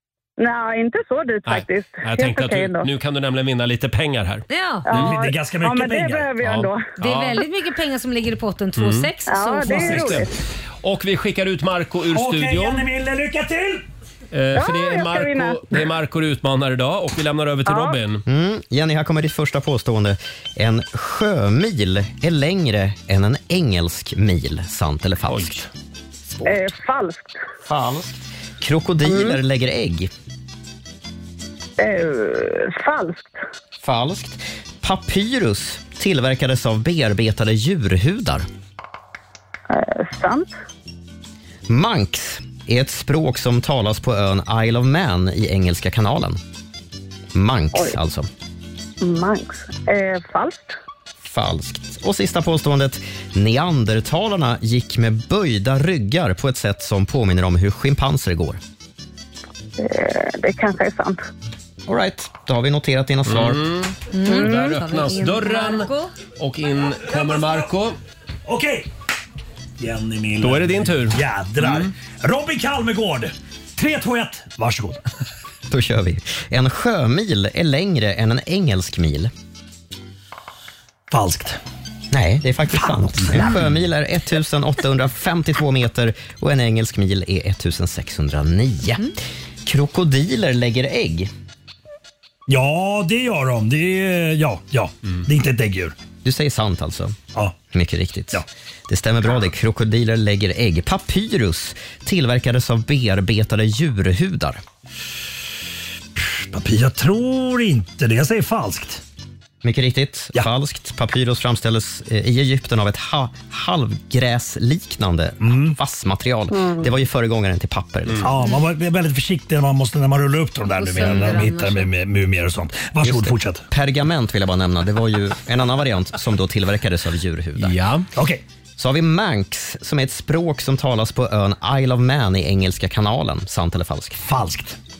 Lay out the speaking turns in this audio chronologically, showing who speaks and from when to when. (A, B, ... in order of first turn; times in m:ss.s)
0:00.4-0:02.9 A
0:01.4-0:05.2 B
0:04.5-0:04.9 C
0:04.9-0:06.8 A
0:05.0-0:06.4 D
0:06.4-0:07.4 B
0:07.0-0:10.2 C
0:08.8-0:09.1 B
0:09.3-0:10.3 A
0:09.6-0:10.3 B
0:09.7-0:10.1 D
0:10.8-0:12.9 B
0:12.1-0:13.8 D
0:14.3-0:18.2 B
0:14.6-0:15.6 A
0:17.7-0:18.0 A
0:18.3-0:25.6 E
0:25.3-0:25.7 B
0:26.4-0:26.7 E
0:26.4-0:27.3 A
0:27.6-0:30.1 E
0:29.1-0:29.4 A
0:31.8-0:33.3 A
0:33.8-0:38.4 E
0:39.7-0:40.5 A
0:41.7-0:46.4 E
0:47.3-0:48.3 E
0:49.0-0:50.7 A
0:51.2-0:58.6 E
0:59.8-1:01.2 A
1:01.9-1:03.6 E
1:03.3-1:08.0 B
1:04.1-1:06.1 C
1:08.5-1:08.9 D
1:09.8-1:15.0 D
1:10.4-1:11.9 B
1:15.7-1:19.3 E
1:21.1-1:21.6 D
1:22.1-1:29.1 E
1:22.8-1:23.6 D
1:29.6-1:31.3 E
1:32.5-1:36.0 D
1:36.2-1:37.2 E
1:37.7-1:44.6 E
1:46.2-1:49.0 D
1:49.6-1:58.3 E
1:55.4-1:55.8 D
1:58.2-2:03.6 D
2:00.8-2:01.9 C
2:03.0-2:07.8 E
2:07.6-2:08.1 B
2:08.2-2:08.4 D
2:08.8-2:14.2 E
2:14.2-2:14.8 D